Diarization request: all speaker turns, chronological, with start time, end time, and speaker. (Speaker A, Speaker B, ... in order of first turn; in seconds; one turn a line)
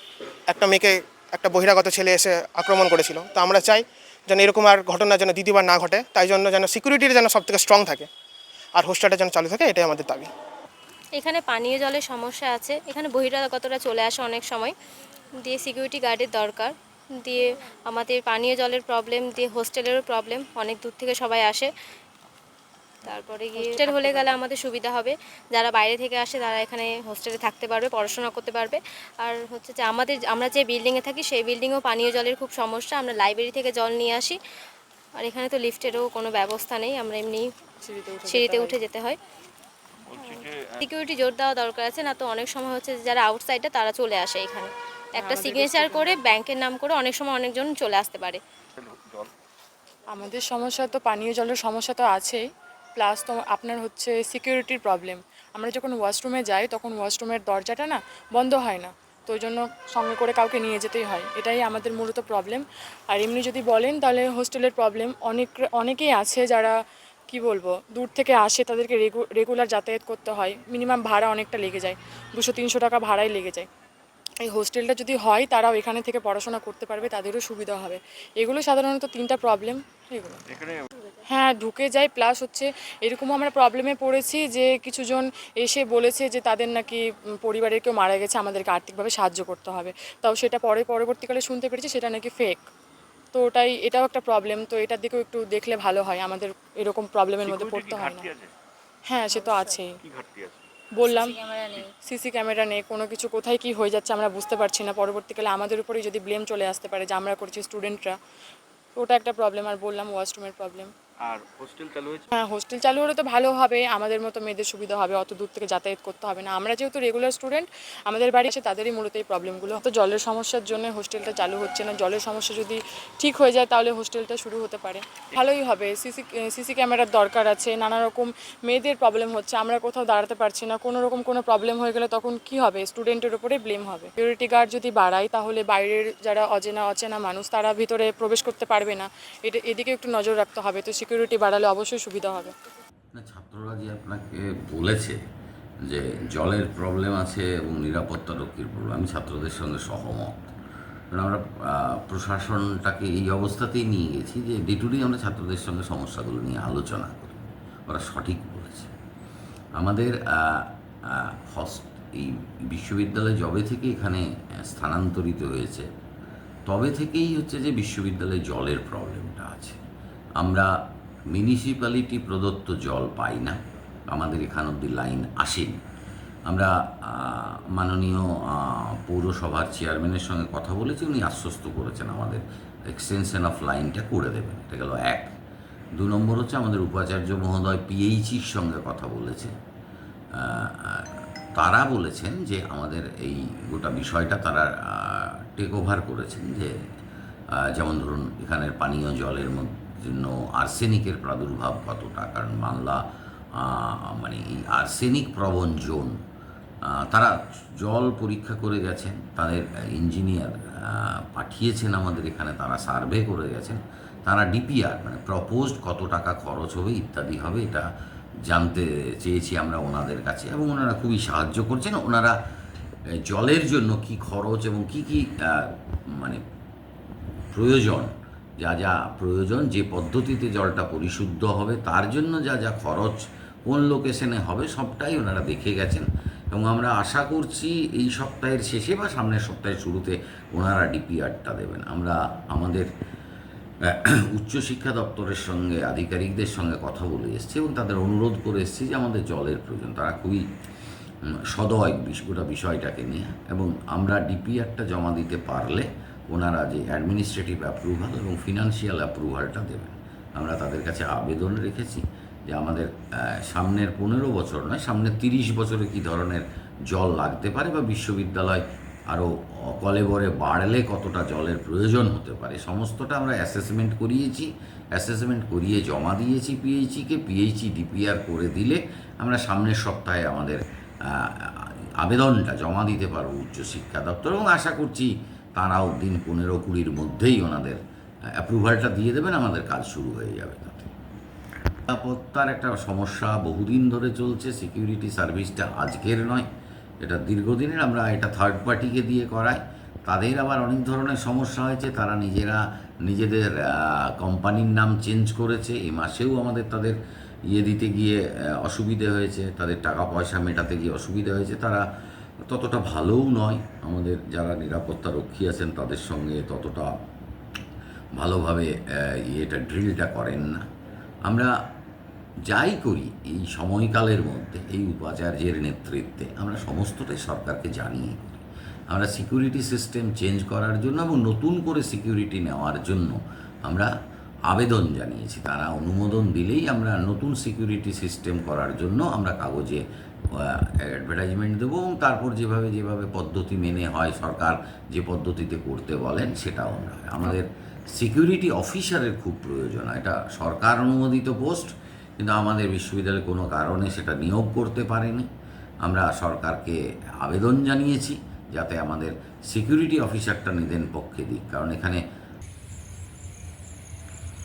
Speaker A: 0.5-8.1
Speaker A: 8.8-10.3
Speaker B: 11.2-14.7
Speaker B: 15.4-21.7
Speaker B: 23.1-34.4
Speaker C: 23.1-23.9
Speaker D: 23.6-24.2
Speaker B: 35.2-37.4
Speaker D: 37.8-38.8
Speaker B: 38.4-39.2
Speaker C: 40.1-40.8
Speaker B: 40.9-44.7
Speaker D: 45.1-46.4
Speaker B: 45.4-45.8
Speaker B: 46.5-48.4
Speaker C: 48.8-49.3
Speaker D: 50.1-52.4
Speaker D: 53.0-66.8
Speaker D: 67.3-73.7
Speaker D: 74.4-80.4
Speaker C: 80.5-80.8
Speaker D: 81.3-92.6
Speaker D: 93.3-98.3
Speaker C: 97.4-98.5
Speaker D: 99.1-100.0
Speaker C: 100.0-100.6
Speaker D: 101.0-108.2
Speaker D: 109.0-110.9
Speaker C: 111.2-112.3
Speaker D: 112.3-142.5
Speaker E: 143.1-145.2
Speaker E: 145.8-150.5
Speaker E: 151.1-158.9
Speaker E: 159.8-165.9
Speaker E: 166.7-169.8
Speaker E: 170.4-170.7
Speaker E: 171.3-173.6
Speaker E: 174.1-175.8
Speaker E: 176.5-185.3
Speaker E: 186.0-189.5
Speaker E: 190.4-196.7
Speaker E: 197.6-203.0
Speaker E: 203.6-206.2
Speaker E: 206.9-217.8
Speaker E: 218.5-222.3
Speaker E: 223.3-226.4
Speaker E: 227.5-242.9
Speaker E: 243.9-250.4
Speaker E: 251.5-262.9
Speaker E: 263.5-287.8
Speaker E: 288.4-290.9
Speaker E: 291.9-296.5
Speaker E: 297.0-307.0
Speaker E: 307.5-311.8
Speaker E: 312.4-316.9
Speaker E: 318.2-320.6
Speaker E: 322.5-333.9
Speaker E: 334.5-339.8
Speaker E: 340.4-347.5
Speaker E: 348.0-355.3
Speaker E: 355.8-362.0